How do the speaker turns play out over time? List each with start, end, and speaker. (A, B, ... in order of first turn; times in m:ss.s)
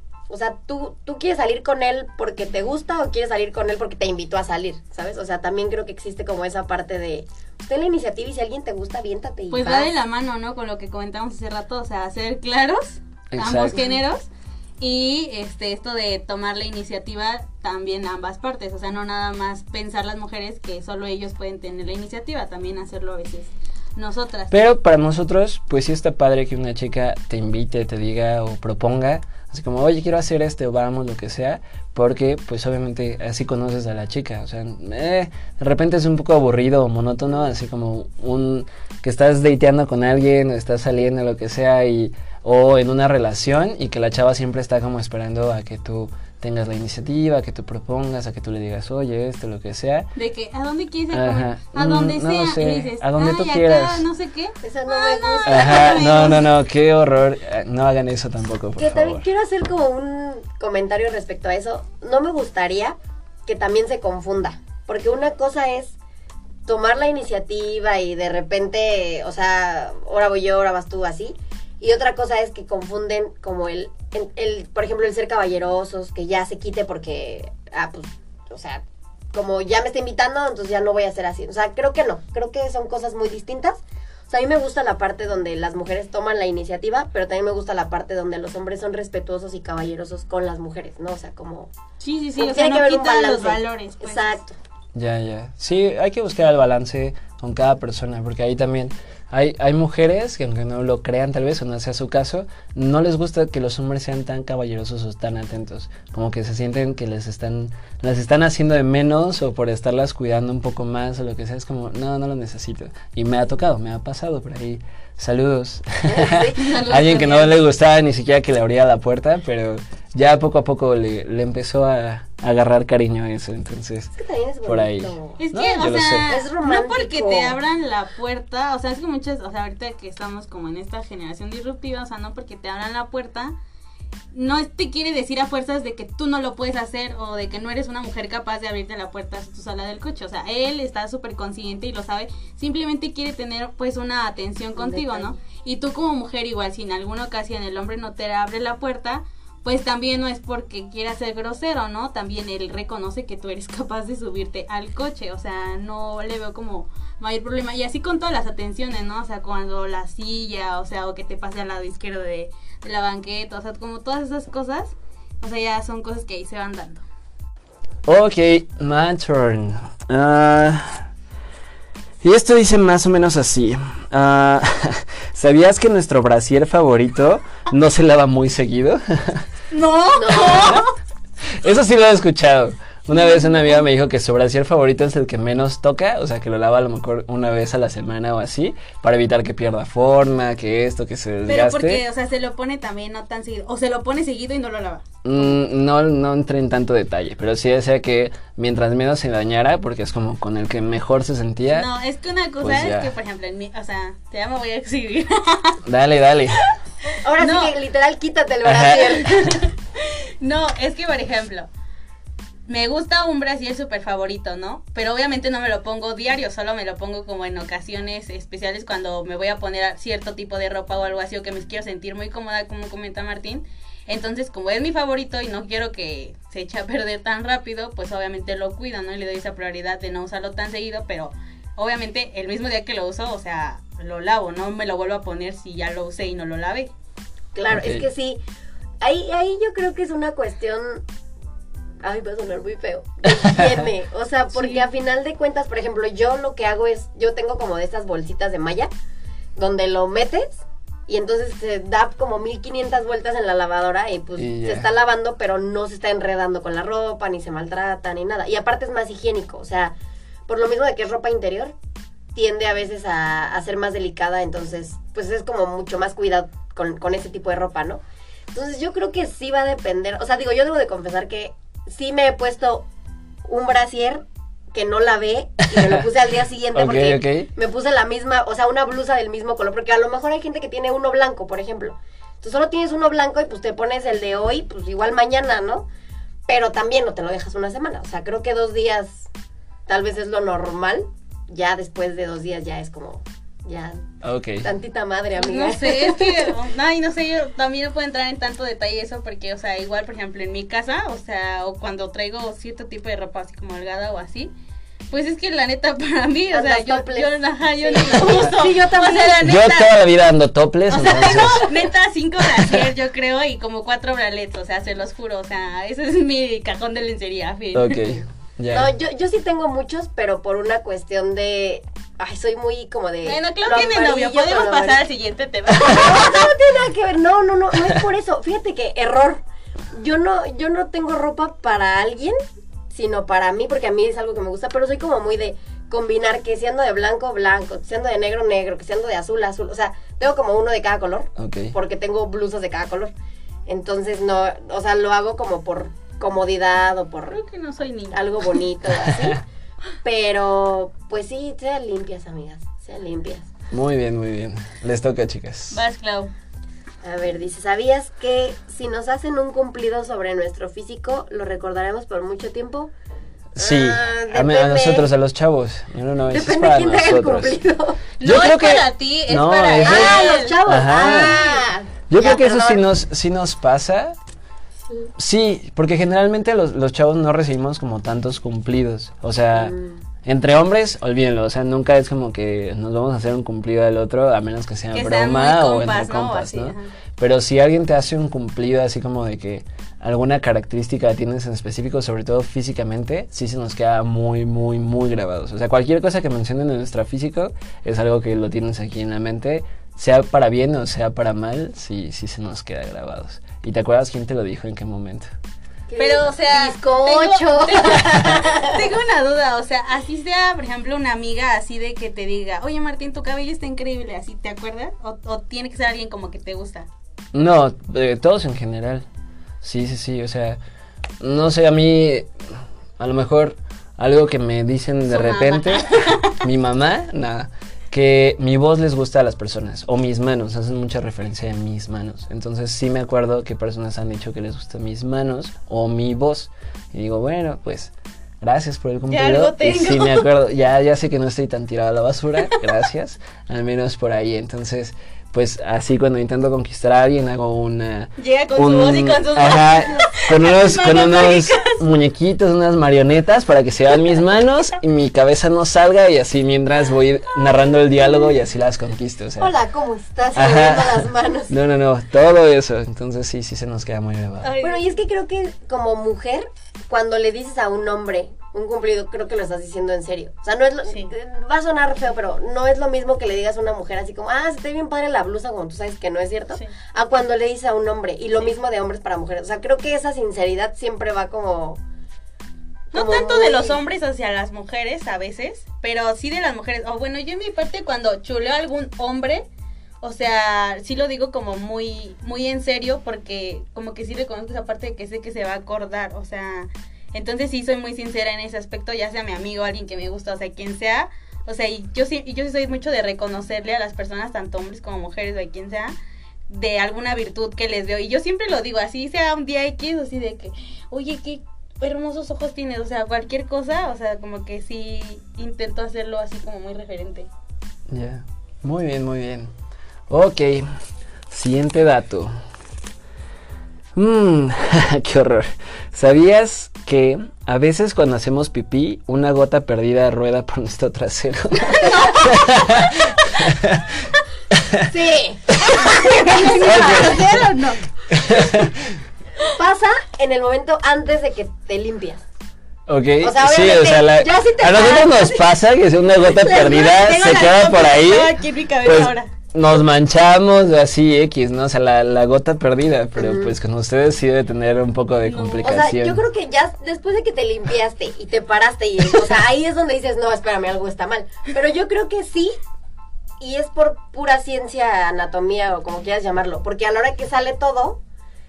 0:00.3-0:09.9 A
0:09.5-0:14.3 B
0:13.3-0:13.8 C
0:14.8-0:24.5 B
0:24.5-0:50.1 C
0:50.2-0:56.5 B
0:51.1-0:54.1 C
0:54.6-0:56.4 A
0:55.5-0:59.2 C
0:58.8-1:06.0 A
1:06.7-1:31.7 A
1:32.0-1:34.4 B
1:32.4-1:34.6 A
1:35.0-2:04.1 C
1:56.1-1:56.7 A
1:56.6-1:57.6 B
2:04.2-2:05.4 A
2:04.7-2:06.3 C
2:05.4-2:13.6 B
2:06.3-2:07.6 A
2:14.3-2:47.0 B
2:24.8-2:25.4 A
2:48.1-2:51.1 C
2:52.2-2:59.5 C
2:59.7-3:00.9 B
3:00.1-3:00.8 A
3:01.6-3:12.0 C
3:11.5-3:15.5 B
3:15.2-3:21.9 C
3:21.7-3:25.8 B
3:22.6-3:23.1 C
3:25.9-3:26.6 C
3:27.2-3:29.4 A
3:27.4-3:27.8 B
3:28.6-3:29.6 C
3:29.3-3:31.7 B
3:32.7-3:56.9 B
3:57.6-3:58.4 A
3:57.7-3:58.0 C
3:59.0-4:01.0 A
4:02.0-4:08.9 A
4:04.6-4:04.8 B
4:09.6-4:19.9 A
4:14.4-4:14.9 C
4:20.5-4:21.8 A
4:22.4-4:28.0 A
4:28.5-4:32.9 A
4:33.5-4:45.9 A
4:35.8-4:36.0 C
4:36.8-4:37.5 C
4:46.5-4:49.3 A
4:49.9-4:54.0 A
4:54.2-4:54.7 C
4:54.6-4:56.6 A
4:55.4-5:04.5 B
5:05.1-5:10.0 B
5:06.5-5:09.4 A
5:09.4-5:11.7 C
5:10.9-5:18.2 B
5:12.6-5:12.8 C
5:17.7-5:18.9 C
5:18.7-5:25.0 A
5:23.2-5:26.5 B
5:25.7-5:29.4 A
5:29.9-5:32.4 A
5:32.9-5:43.1 A
5:41.4-5:41.7 C
5:43.7-5:47.4 A
5:47.3-5:48.6 B
5:48.1-5:49.4 A
5:49.0-5:49.4 C
5:50.0-5:53.5 A
5:53.7-5:55.8 C
5:55.7-5:56.3 B
5:57.0-6:02.9 A
6:03.6-6:07.6 C
6:03.6-6:05.1 A
6:06.3-6:08.0 A
6:08.2-6:11.6 B
6:08.2-6:11.4 C
6:09.8-6:12.8 A
6:12.1-6:14.2 C
6:15.2-6:45.3 C
6:19.6-6:20.0 A
6:24.9-6:26.9 B
6:45.9-6:48.8 A
6:46.0-6:56.9 B
6:57.3-6:59.1 C
6:59.6-7:00.6 C
7:01.2-7:02.3 C
7:03.0-7:39.5 C
7:05.1-7:06.4 B
7:19.1-7:20.3 B
7:28.2-7:31.8 B
7:39.4-7:41.6 A
7:40.4-7:44.5 C
7:44.4-7:45.0 B
7:44.6-8:01.8 A
8:02.9-8:09.5 B
8:02.9-8:03.8 A
8:10.0-8:26.0 B
8:26.5-8:37.3 B
8:37.9-8:39.5 C
8:40.1-8:40.7 C
8:41.3-8:42.3 C
8:44.0-8:54.9 C
8:54.8-8:57.2 A
8:55.7-8:55.9 C
8:55.8-8:57.8 B
8:56.6-8:57.4 C
8:58.1-8:59.0 C
8:59.4-9:02.3 A
9:02.9-9:16.2 C
9:03.2-9:05.5 A
9:06.3-9:09.3 B
9:13.2-9:13.6 A
9:15.2-9:15.9 B
9:15.6-9:22.6 A
9:23.4-9:28.0 A